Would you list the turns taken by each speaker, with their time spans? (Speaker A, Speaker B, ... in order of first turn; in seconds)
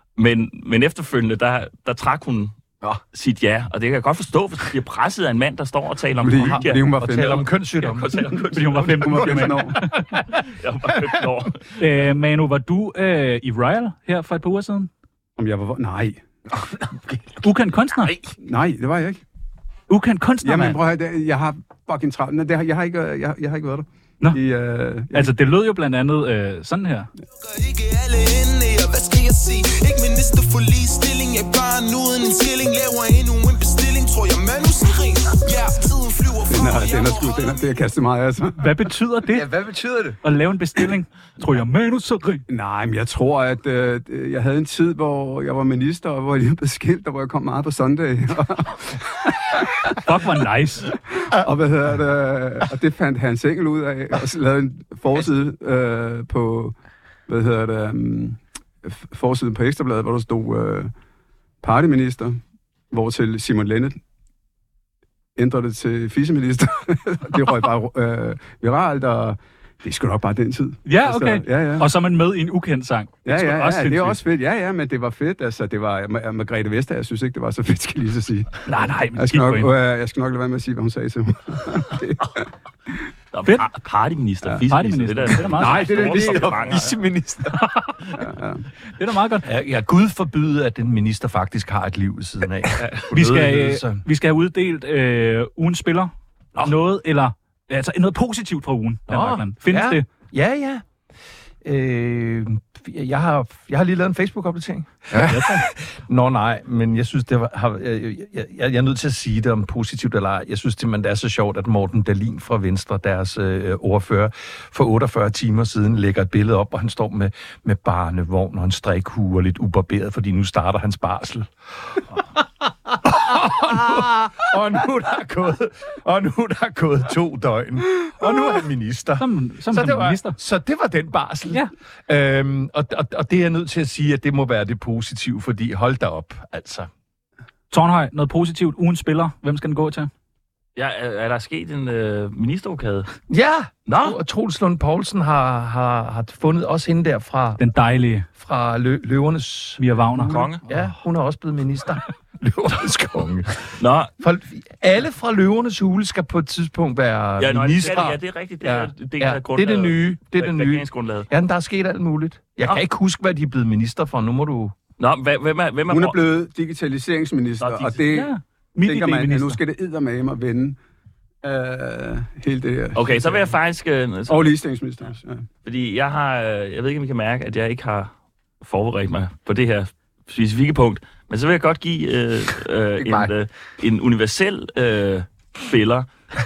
Speaker A: 0.2-2.5, 3.1-9.4, 10.5-11.7, 83.3-87.0, 140.8-143.1, 143.9-144.2, 150.2-150.6, 153.8-154.1, 157.4-161.3, 165.0-166.2, 167.6-168.0, 172.9-174.6, 175.7-186.1
Speaker B: 6.2-7.5, 8.7-9.8, 15.4-16.2, 18.4-19.2, 20.4-25.3, 36.5-38.9, 42.5-50.0, 51.0-56.8, 57.3-60.9, 61.6-62.4, 62.9-64.0, 65.4-71.9, 73.3-78.6, 79.2-82.9, 85.6-86.8, 88.1-88.7, 165.9-168.3, 168.8-170.8, 171.4-173.6, 174.3-175.5
Speaker C: 6.4-8.1, 89.4-94.0, 99.1-100.8, 101.6-136.9, 143.3-147.6, 148.4-149.8, 150.6-153.7, 154.2-164.7
Speaker D: 8.4-10.0, 11.8-14.9, 17.4-18.2, 19.9-20.8, 25.1-27.1, 38.6-39.5, 40.2-42.4, 50.0-50.9, 70.9-74.2, 78.7-79.7, 84.6-86.4, 87.6-87.9, 89.0-89.5, 93.1-100.1, 105.2-105.7, 129.2-130.4, 137.7-140.1, 147.6-148.3, 149.8-150.9, 168.1-169.6
Speaker E: 27.4-37.8
Speaker F: 39.3-40.2, 85.6-87.6, 105.1-105.4, 183.0-183.3